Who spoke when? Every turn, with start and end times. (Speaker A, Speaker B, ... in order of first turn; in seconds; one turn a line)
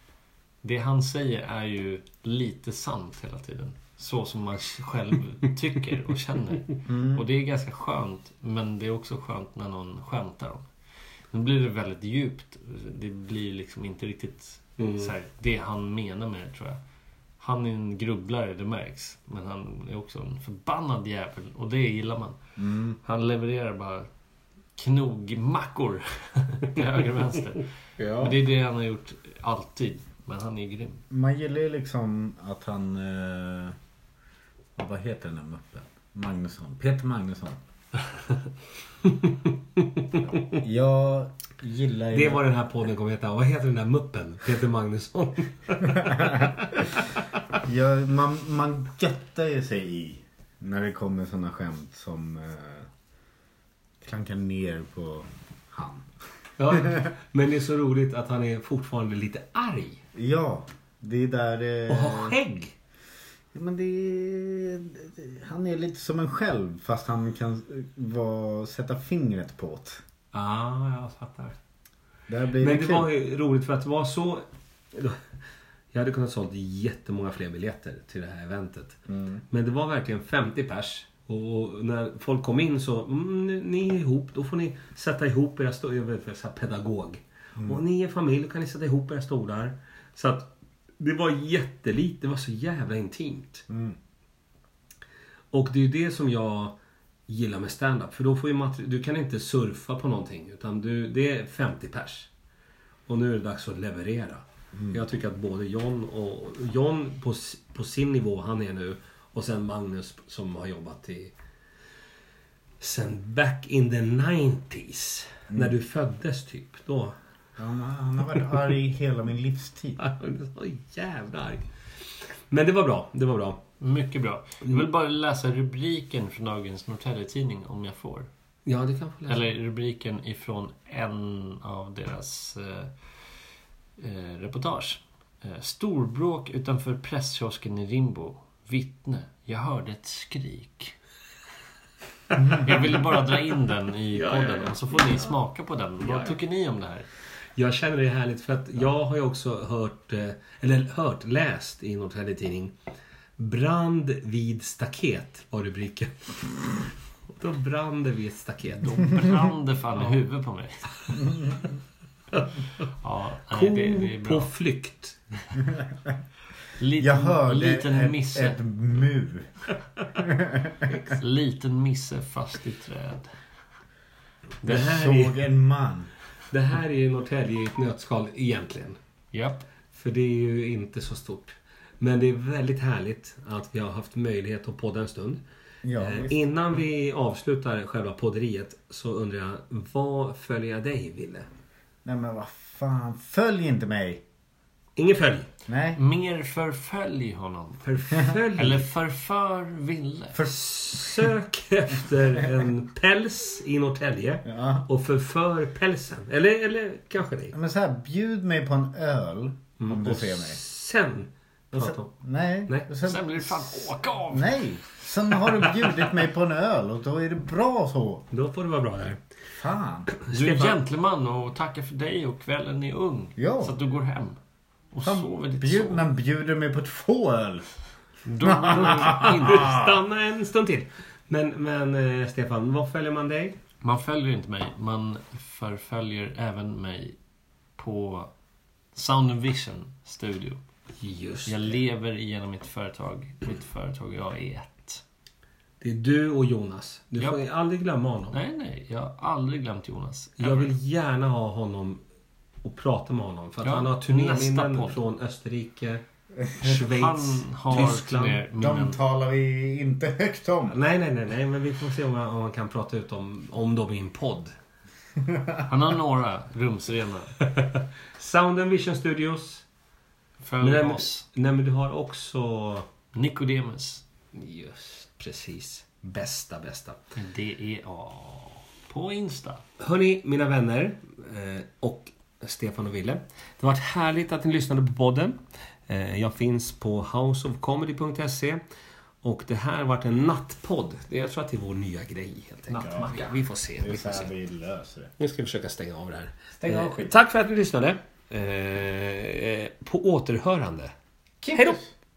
Speaker A: 0.6-10.7
Speaker B: 6.9-7.2
Speaker A: 11.3-16.8
Speaker C: 14.8-15.1
Speaker A: 17.4-22.4
Speaker B: 22.6-23.0
Speaker A: 23.0-24.1
Speaker A: 24.8-31.0
Speaker C: 28.0-28.4
Speaker B: 31.1-33.8
Speaker B: 34.8-37.6
Speaker C: 39.0-40.6
Speaker B: 40.6-42.5
Speaker C: 42.1-47.2
Speaker B: 45.9-46.7
Speaker B: 47.6-52.9
Speaker B: 54.0-56.1
Speaker C: 56.6-60.0
Speaker B: 60.1-62.4
Speaker C: 61.9-62.7
Speaker B: 63.5-70.0
Speaker C: 70.3-71.6
Speaker B: 72.3-73.1
Speaker C: 72.6-75.2
Speaker C: 75.9-79.0
Speaker B: 79.1-79.4
Speaker C: 79.5-93.7
Speaker B: 93.7-94.0
Speaker C: 95.5-96.8
Speaker C: 97.3-102.3
Speaker C: 103.1-111.3
Speaker B: 104.7-105.0
Speaker C: 112.8-117.2
Speaker B: 117.6-120.0
Speaker C: 120.0-121.7
Speaker C: 122.5-123.6
Speaker A: 123.8-128.3
Speaker C: 128.7-129.5
Speaker A: 129.3-132.9
Speaker A: 134.0-140.9
Speaker A: 142.3-147.1
Speaker B: 142.4-142.7
Speaker C: 142.5-142.9
Speaker C: 144.1-145.4
Speaker C: 146.0-146.4
Speaker C: 147.6-152.8
Speaker C: 153.4-156.8
Speaker C: 157.3-159.1
Speaker A: 158.8-161.4
Speaker B: 161.2-161.7
Speaker A: 163.0-164.5
Speaker C: 163.5-165.2
Speaker A: 166.8-168.6
Speaker B: 167.0-169.5
Speaker B: 170.2-170.8
Speaker A: 171.1-173.3
Speaker A: 174.6-175.0
Speaker C: 174.7-175.4
Speaker B: 174.7-176.1
Speaker C: 176.5-179.0
Speaker A: 179.3-179.7
Speaker C: 179.9-185.4
Speaker B: 185.8-186.4
Speaker C: 186.0-191.5
Speaker B: 192.1-194.2
Speaker C: 195.0-195.5
Speaker B: 195.7-196.0
Speaker A: 195.9-200.5
Speaker C: 197.8-198.9
Speaker B: 200.3-201.3
Speaker C: 200.4-207.6
Speaker B: 204.4-204.9
Speaker B: 207.5-210.6
Speaker C: 209.8-212.1
Speaker B: 211.7-218.3
Speaker A: 213.0-214.8
Speaker C: 218.3-219.2
Speaker B: 219.5-220.1
Speaker C: 220.1-220.8
Speaker A: 220.3-224.4
Speaker B: 223.4-223.8
Speaker A: 224.9-226.1
Speaker B: 225.0-227.7
Speaker A: 228.3-229.8
Speaker B: 228.4-229.8
Speaker C: 228.7-233.6
Speaker A: 233.8-237.2
Speaker A: 237.8-238.3
Speaker A: 238.9-240.6
Speaker C: 241.0-241.8
Speaker A: 241.5-245.0
Speaker C: 245.8-248.4
Speaker A: 247.2-247.4
Speaker A: 248.3-250.7
Speaker C: 250.4-252.0
Speaker C: 252.6-256.0
Speaker A: 253.6-255.0
Speaker C: 256.6-258.4
Speaker A: 256.6-259.0
Speaker B: 258.6-260.8
Speaker C: 260.7-264.5
Speaker B: 265.3-265.6
Speaker A: 265.6-267.4
Speaker C: 267.5-269.6
Speaker A: 270.4-271.2
Speaker C: 270.6-272.9
Speaker A: 273.1-274.0
Speaker C: 274.3-277.0
Speaker A: 277.1-279.6
Speaker C: 279.8-288.6
Speaker C: 289.2-294.3
Speaker B: 292.7-295.1
Speaker C: 295.2-300.9
Speaker B: 296.6-297.2
Speaker B: 301.4-301.9
Speaker C: 301.5-301.8